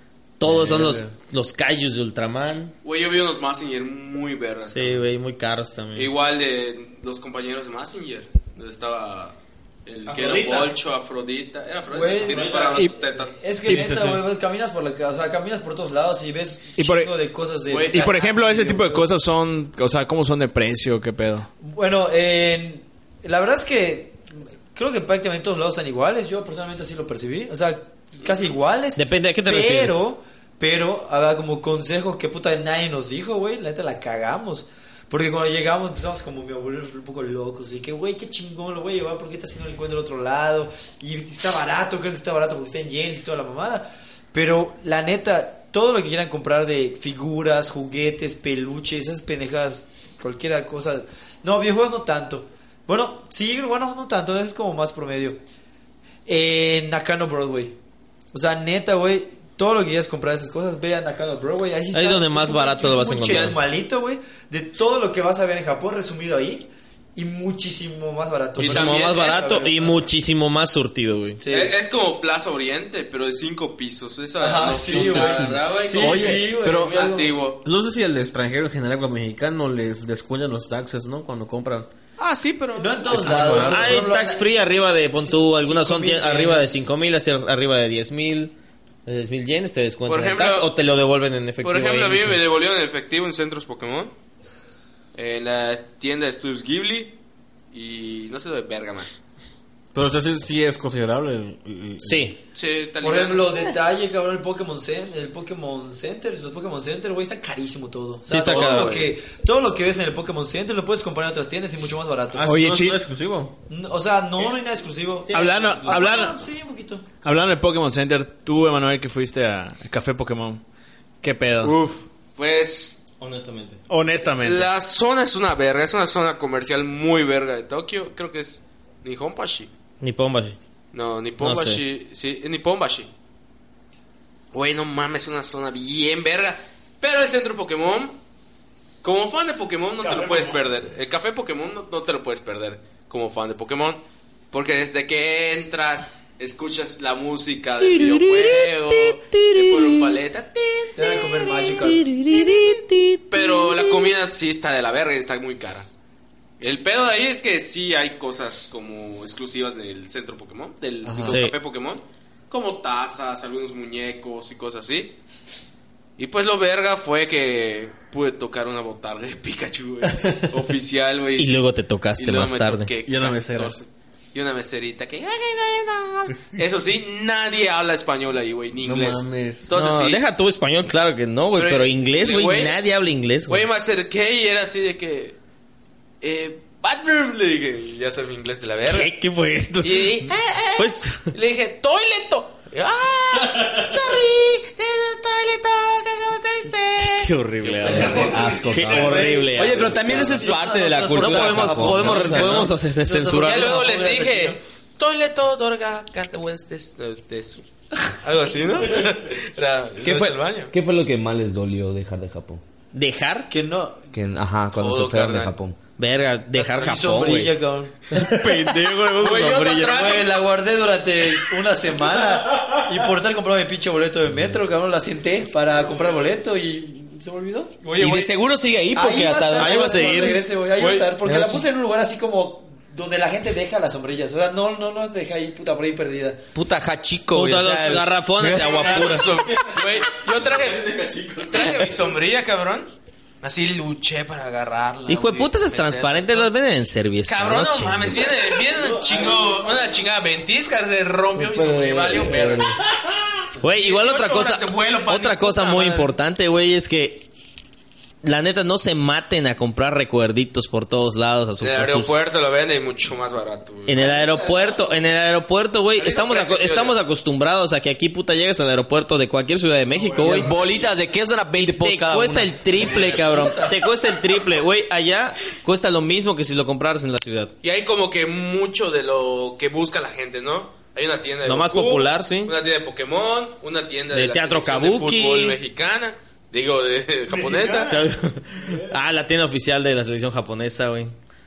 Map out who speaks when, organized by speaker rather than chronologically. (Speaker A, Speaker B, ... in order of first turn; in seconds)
Speaker A: 0.4-2.7, 4.7-6.1, 10.1-10.7, 28.9-30.1, 61.9-63.6, 68.6-71.4, 83.6-88.5, 89.0-92.4, 102.0-102.4, 108.3-109.0, 115.3-116.1, 123.2-123.8, 130.0-130.6, 131.4-131.8, 147.9-150.0, 151.7-153.8, 161.3-161.5, 171.4-172.9, 179.7-183.6, 188.9-191.3, 197.0-200.3, 201.1-203.9, 212.9-213.5, 216.0-217.6, 229.6-230.4, 237.3-239.3, 245.1-248.3, 253.6-257.3, 258.2-262.1, 263.9-270.5, 271.7-277.5, 281.4-282.5, 284.1-285.6, 287.8-291.1
Speaker B: 0.4-1.1, 13.6-14.2, 74.8-77.0, 77.6-81.9, 83.1-84.1, 99.9-102.3, 112.3-113.5, 161.0-161.4, 173.1-173.8, 178.8-179.7, 219.4-219.8
Speaker C: 2.8-5.0, 6.0-13.4, 17.7-18.5, 63.3-63.5, 68.6-69.4, 71.5-77.6, 82.2-83.7, 90.1-90.7, 91.6-94.1, 95.1-97.1, 97.7-99.1, 102.5-103.6, 108.4-109.1, 122.3-123.1, 124.4-129.7, 130.9-133.1, 134.5-138.2, 139.0-144.0, 144.5-151.2, 153.3-155.9, 156.6-165.2, 166.2-180.2, 181.6-182.8, 183.5-185.4, 186.2-189.1, 189.8-197.1, 197.6-198.6, 203.3-210.7, 214.8-215.5, 219.1-220.4, 230.8-231.1, 238.4-240.9, 241.5-242.9, 243.4-246.5, 247.2-252.8, 253.7-256.1, 261.6-264.1, 266.0-266.9, 272.8-273.7, 277.6-288.0
Speaker D: 11.9-19.1, 21.6-55.4, 56.2-57.8, 58.3-70.0, 71.4-71.7, 74.4-77.5, 82.7-84.5, 85.2-86.8, 103.0-112.5, 113.7-117.0, 150.9-152.2, 198.9-199.4, 200.0-202.6, 203.1-204.5, 213.5-214.0, 216.5-218.0, 219.7-228.3, 228.9-236.4
Speaker E: 16.8-17.1, 17.9-21.5, 112.4-113.0, 115.3-116.4, 117.2-120.6, 121.2-121.8, 123.9-124.7, 140.2-140.5, 269.9-270.8, 287.3-287.9
Speaker F: 197.8-202.8, 210.0-212.6, 214.1-215.8, 227.9-230.2, 231.2-231.7, 236.5-238.4, 241.2-241.7, 251.4-252.6, 264.0-264.7, 270.2-273.7